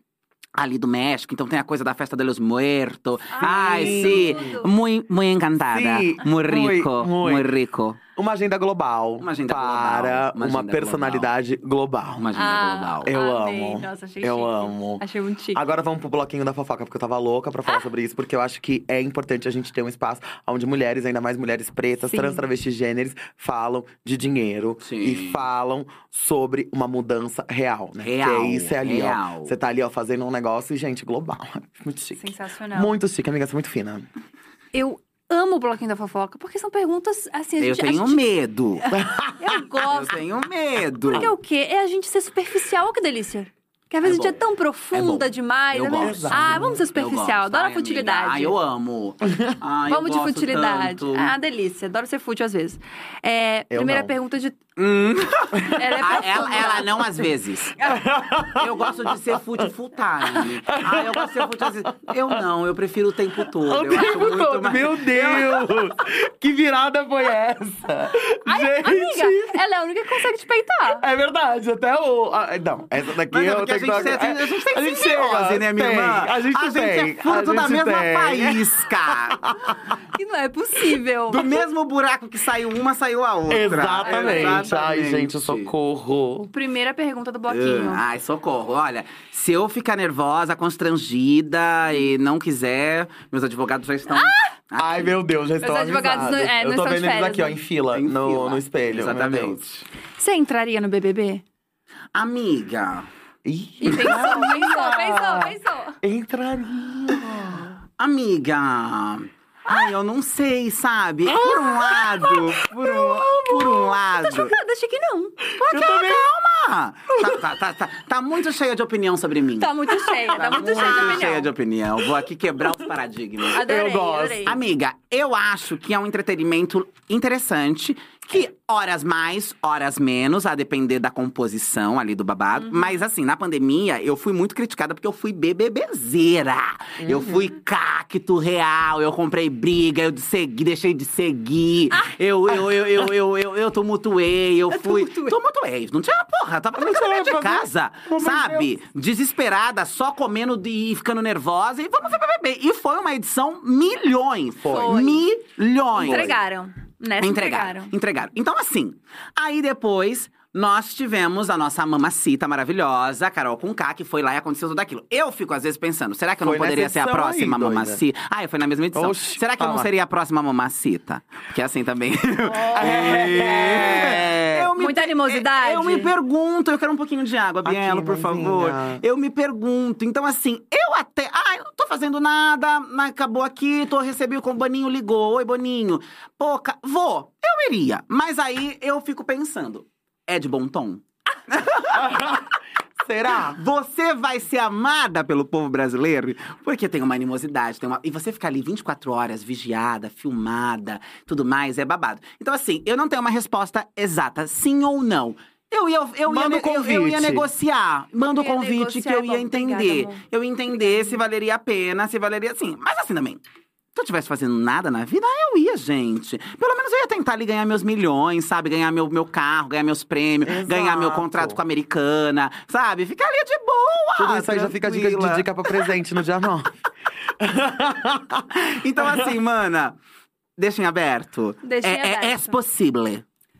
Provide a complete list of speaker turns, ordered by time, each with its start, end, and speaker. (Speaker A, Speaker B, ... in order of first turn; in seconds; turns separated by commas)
Speaker A: 0.6-8.0, Speaker B: 3.3-4.7, Speaker C: 3.4-4.5, Speaker C: 5.7-7.5, Speaker C: 8.1-12.3, Speaker A: 9.2-11.3, Speaker A: 12.2-13.1, Speaker B: 12.3-15.6, Speaker C: 13.0-15.0, Speaker C: 15.5-34.1, Speaker B: 22.1-22.4, Speaker A: 24.8-25.4, Speaker A: 28.0-29.5, Speaker B: 32.1-32.9, Speaker B: 34.7-38.2, Speaker A: 37.6-38.9, Speaker B: 38.8-40.2, Speaker C: 38.9-39.6, Speaker A: 39.9-41.3, Speaker B: 41.1-48.5, Speaker A: 44.0-44.4, Speaker A: 44.9-51.3, Speaker C: 46.0-46.8, Speaker C: 49.3-49.5, Speaker B: 49.9-54.6, Speaker C: 53.7-54.1, Speaker A: 54.8-57.8, Speaker B: 55.6-57.1, Speaker C: 57.8-59.7, Speaker A: 58.5-65.9, Speaker C: 60.7-62.4, Speaker C: 63.6-69.6, Speaker B: 68.1-71.0, Speaker C: 70.8-80.0, Speaker A: 73.3-79.5, Speaker B: 79.6-81.7, Speaker A: 81.3-85.7, Speaker C: 83.5-86.5, Speaker B: 84.0-84.7, Speaker B: 86.5-88.0, Speaker A: 87.5-95.1, Speaker B: 94.1-94.5, Speaker C: 94.8-99.6, Speaker B: 95.6-97.5, Speaker A: 97.9-99.8, Speaker B: 100.2-101.4, Speaker A: 102.1-103.1, Speaker C: 103.4-107.7, Speaker B: 103.8-106.0, Speaker A: 103.9-104.3, Speaker A: 108.0-114.5, Speaker C: 111.2-113.8, Speaker B: 114.2-115.5, Speaker C: 115.5-116.3, Speaker A: 115.6-119.8, Speaker C: 117.1-117.5, Speaker B: 119.6-121.5, Speaker C: 120.1-121.2, Speaker A: 120.3-123.6, Speaker C: 123.5-124.6, Speaker B: 123.5-124.5, Speaker A: 124.4-156.3, Speaker C: 137.0-137.5, Speaker B: 144.7-145.4, Speaker C: 146.7-148.7, Speaker C: 154.6-155.0, Speaker B: 154.7-155.2, Speaker B: 155.9-157.9, Speaker C: 156.0-156.3, Speaker A: 157.2-192.2, Speaker C: 166.4-168.0, Speaker C: 168.9-169.9, Speaker B: 172.5-173.5, Speaker C: 172.7-174.7, Speaker B: 174.8-176.1, Speaker C: 177.6-179.0, Speaker C: 191.9-193.6, Speaker A: 193.4-213.4, Speaker C: 206.3-207.5, Speaker B: 208.2-211.2, Speaker A: 213.9-225.9, Speaker C: 220.4-221.6, Speaker C: 224.2-226.7, Speaker C: 227.4-229.3, Speaker A: 228.5-229.9, Speaker A: 230.6-233.2, Speaker B: 231.6-232.6